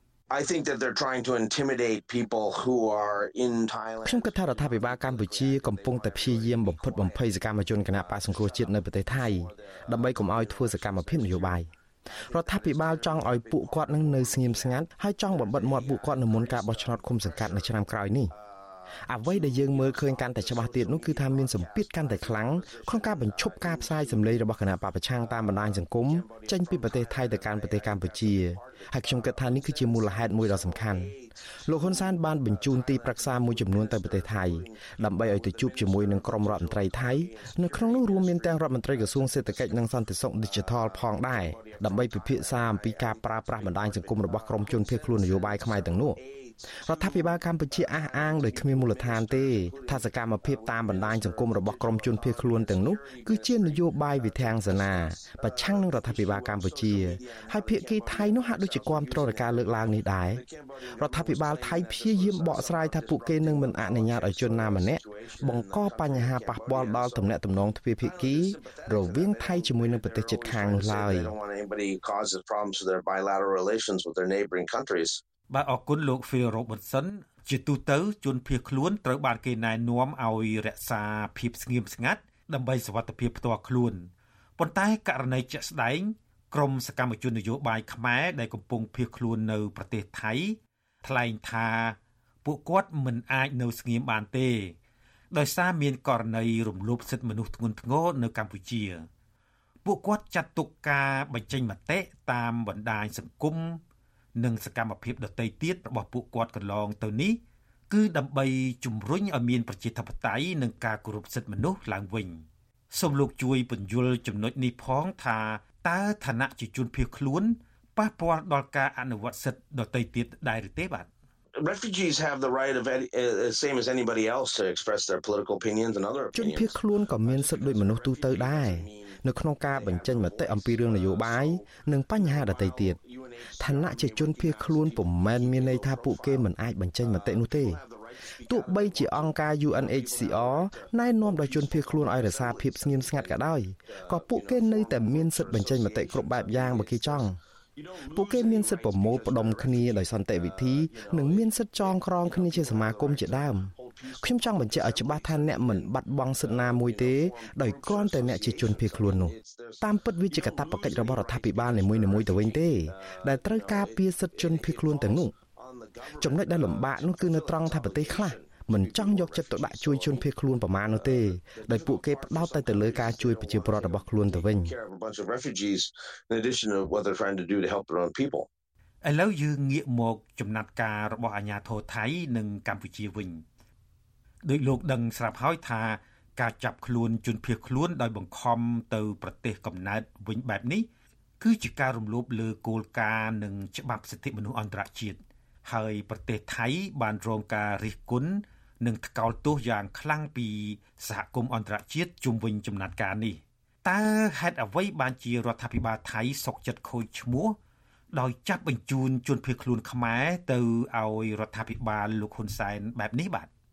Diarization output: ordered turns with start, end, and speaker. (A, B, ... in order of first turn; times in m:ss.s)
0:00.3-1:07.3 A
0:04.0-0:11.7 B
0:12.3-0:18.3 B
0:19.0-0:31.1 B
0:31.6-0:46.2 B
0:46.8-1:00.4 B
1:01.0-1:11.3 B
1:08.0-1:15.2 A
1:15.5-1:34.7 C
1:35.3-1:39.1 C
1:39.8-1:43.8 C
1:44.3-1:47.4 C
1:47.9-2:01.1 C
2:01.6-2:16.5 A
2:06.3-2:13.0 B
2:13.6-2:17.8 B
2:17.0-2:50.3 A
2:18.5-2:27.4 B
2:28.1-2:45.3 B
2:46.2-2:54.7 B
2:50.9-2:58.5 A
2:59.0-3:03.4 C
3:04.4-3:10.8 C
3:11.4-3:27.6 C
3:28.1-3:33.5 C